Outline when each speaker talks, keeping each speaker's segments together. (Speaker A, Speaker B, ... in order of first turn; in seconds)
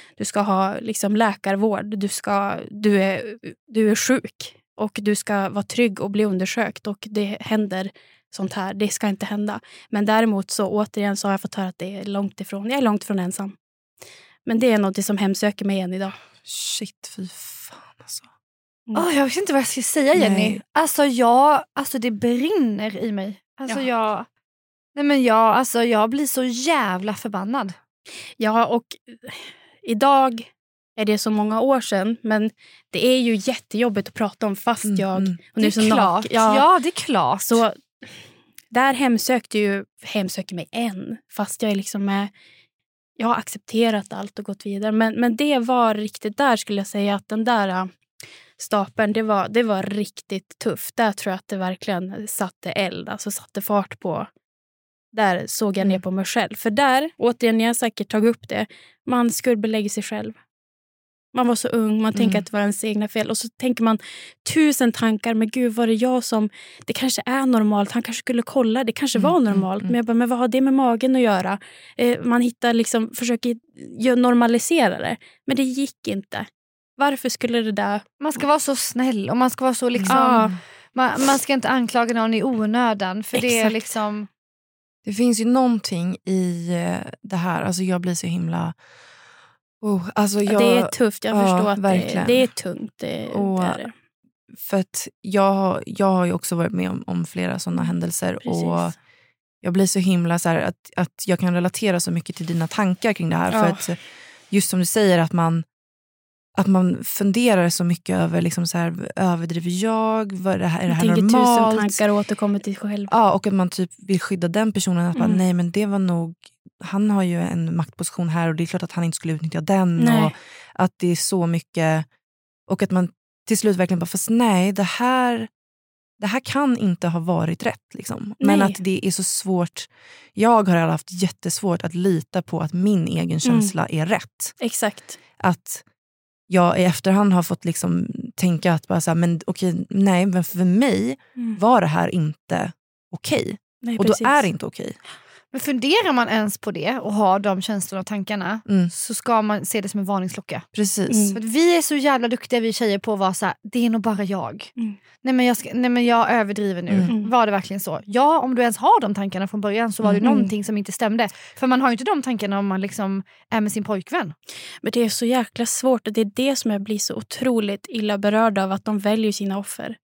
Speaker A: 0.2-13.6, 14.4-16.1, 28.4-36.6, 37.5-37.7, 38.7-42.3, 43.2-47.9, 48.6-54.3, 55.1-60.4, 61.3-76.5, 77.0-78.0, 80.1-80.5, 83.3-83.8, 90.5-93.9, 98.4-98.9, 103.5-103.8, 110.9-113.1, 115.2-115.4, 120.0-120.3, 128.4-128.8, 133.4-133.7, 134.6-135.2, 143.8-144.5, 151.1-151.4, 160.2-160.5, 164.8-170.0
Speaker B: 16.4-18.3, 20.1-20.6, 34.8-35.4, 62.1-62.4, 69.1-69.9, 79.9-80.5, 85.0-88.7, 89.8-92.5, 93.3-93.8, 94.5-99.0, 99.6-105.7, 106.5-112.0, 113.1-122.0, 122.7-125.5, 126.2-134.6, 135.4-135.8, 136.5-145.0, 148.7-148.9, 150.7-151.3
Speaker C: 18.9-24.3, 24.9-27.8, 35.6-37.6, 78.2-84.3, 145.5-150.7, 151.3-164.3